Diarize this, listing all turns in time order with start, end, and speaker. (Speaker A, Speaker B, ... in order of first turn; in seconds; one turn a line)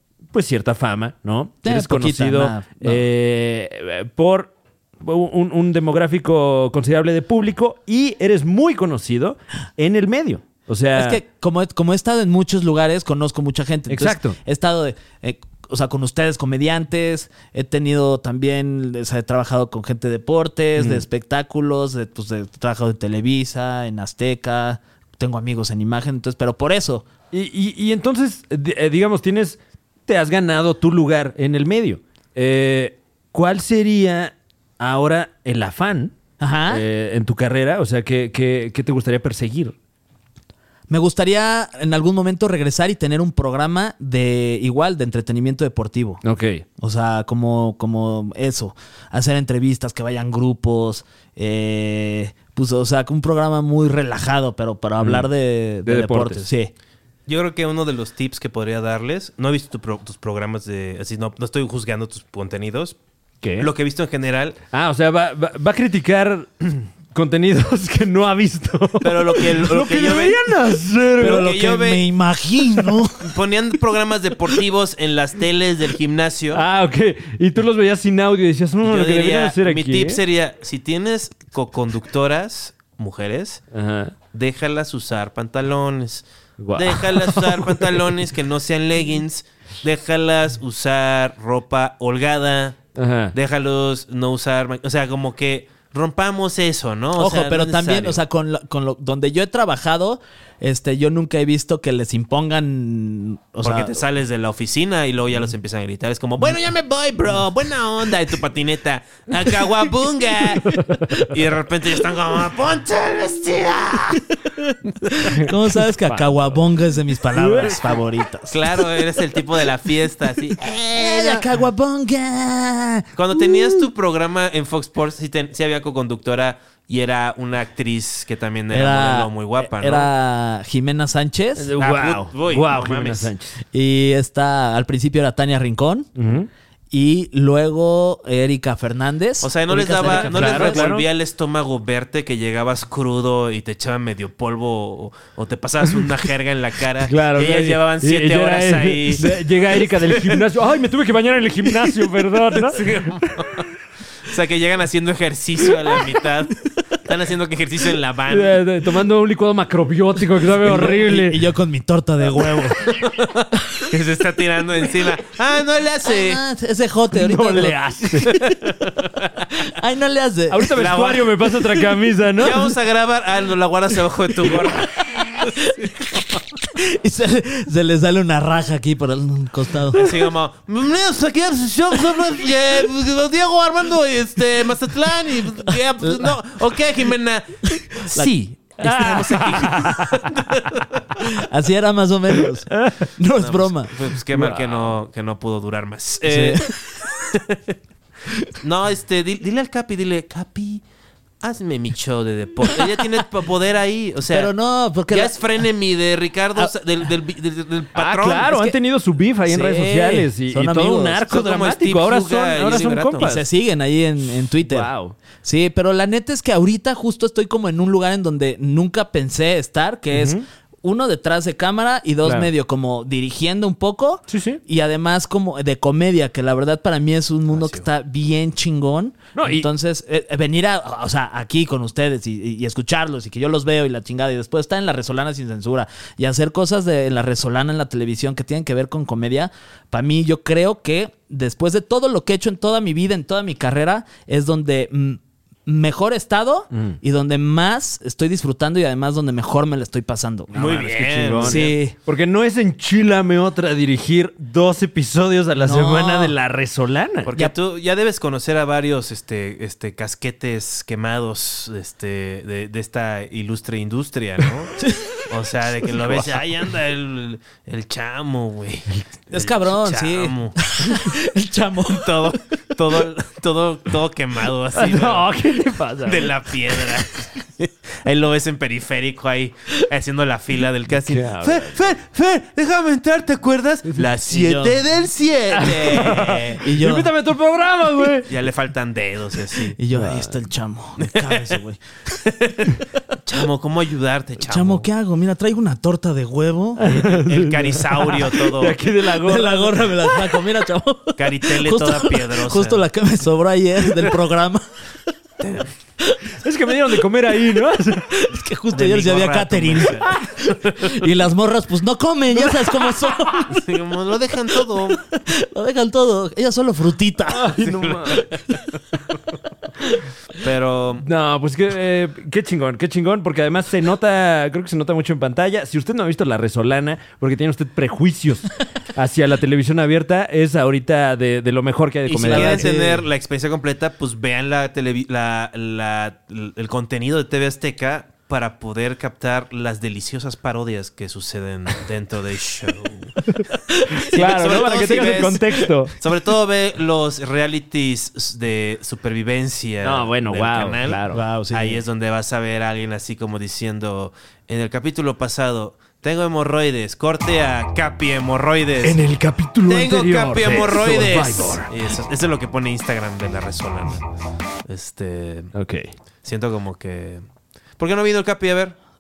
Speaker A: 0.3-11.2
Speaker B: 1.6-3.0
Speaker B: 10.9-27.1
Speaker A: 13.9-14.4
Speaker A: 20.8-21.0
Speaker A: 27.3-36.1
Speaker B: 36.4-36.8
Speaker A: 36.7-39.7
Speaker B: 40.9-46.2
Speaker A: 46.2-46.6
Speaker B: 46.8-56.7
Speaker A: 55.0-55.3
Speaker A: 55.8-56.5
Speaker C: 57.3-63.0
Speaker A: 63.4-63.7
Speaker C: 63.6-64.6
Speaker A: 64.7-71.5
Speaker C: 69.0-70.4
Speaker B: 71.2-73.3
Speaker C: 71.2-72.0
Speaker C: 73.2-76.6
Speaker A: 76.5-80.2
Speaker C: 78.8-83.6
Speaker A: 83.7-84.1
Speaker C: 84.3-98.2
Speaker A: 86.6-88.0
Speaker A: 93.0-93.3
Speaker B: 97.2-104.0
Speaker C: 103.6-114.3
Speaker A: 110.7-111.3
Speaker B: 115.1-118.6
Speaker A: 115.3-116.6
Speaker A: 117.3-118.0
Speaker C: 118.5-121.5
Speaker B: 120.9-123.8
Speaker C: 123.1-130.1
Speaker B: 128.7-131.7
Speaker A: 131.6-133.6
Speaker C: 131.8-133.3
Speaker B: 133.7-136.1
Speaker A: 136.2-136.5
Speaker B: 136.9-140.8
Speaker C: 139.4-150.4
Speaker A: 140.0-141.1
Speaker A: 147.0-153.2
Speaker C: 152.5-153.7
Speaker C: 154.2-158.6
Speaker A: 158.3-161.4
Speaker B: 160.6-162.8
Speaker C: 162.8-166.4
Speaker B: 166.0-168.2
Speaker A: 167.1-168.3
Speaker C: 168.2-169.3
Speaker B: 169.6-170.7
Speaker A: 170.5-172.7
Speaker C: 170.7-171.7
Speaker C: 172.4-176.1
Speaker B: 175.4-176.2
Speaker B: 176.7-180.1
Speaker C: 179.9-191.0
Speaker B: 186.0-186.3
Speaker A: 188.8-190.8
Speaker B: 191.2-193.9
Speaker A: 192.7-193.0
Speaker C: 193.3-197.6
Speaker A: 194.3-194.9
Speaker B: 196.2-196.7
Speaker C: 198.6-200.8
Speaker C: 201.4-204.5
Speaker B: 204.3-205.5
Speaker C: 205.1-208.7
Speaker A: 207.9-213.3
Speaker B: 209.5-211.2
Speaker C: 211.3-213.4
Speaker B: 213.2-214.9
Speaker A: 214.6-215.1
Speaker B: 215.4-251.9
Speaker A: 220.1-220.4
Speaker A: 222.2-222.5
Speaker A: 224.3-224.6
Speaker C: 227.5-227.8
Speaker A: 229.3-229.7
Speaker C: 250.5-251.8
Speaker A: 250.5-257.3
Speaker B: 255.6-256.3
Speaker C: 257.2-271.0
Speaker B: 264.8-265.1
Speaker A: 265.9-266.4
Speaker B: 269.3-272.4
Speaker C: 271.9-275.3
Speaker A: 274.7-277.0
Speaker C: 276.0-286.2
Speaker A: 280.9-281.8
Speaker B: 284.2-284.8
Speaker A: 285.5-288.3
Speaker B: 285.6-287.1
Speaker C: 288.2-289.8
Speaker B: 289.7-291.8
Speaker A: 289.9-290.3
Speaker C: 291.0-291.6
Speaker C: 292.1-294.9
Speaker B: 294.4-296.9
Speaker A: 296.8-300.4
Speaker C: 296.8-298.8
Speaker B: 299.2-304.6
Speaker C: 301.2-302.8
Speaker C: 305.4-305.7
Speaker A: 306.4-308.3
Speaker B: 308.1-313.7
Speaker C: 308.7-311.1
Speaker A: 312.4-313.1
Speaker C: 313.4-315.0
Speaker B: 315.1-317.6
Speaker A: 317.3-318.3
Speaker C: 317.6-318.6
Speaker C: 320.3-321.1
Speaker A: 321.0-332.7
Speaker C: 332.1-343.2
Speaker B: 332.2-333.1
Speaker A: 343.3-345.9
Speaker C: 343.9-359.0
Speaker A: 349.8-351.2
Speaker B: 351.1-351.8
Speaker A: 358.8-361.7
Speaker C: 359.6-364.0
Speaker C: 364.7-365.5
Speaker A: 365.5-365.9
Speaker C: 366.2-367.2
Speaker C: 367.8-368.7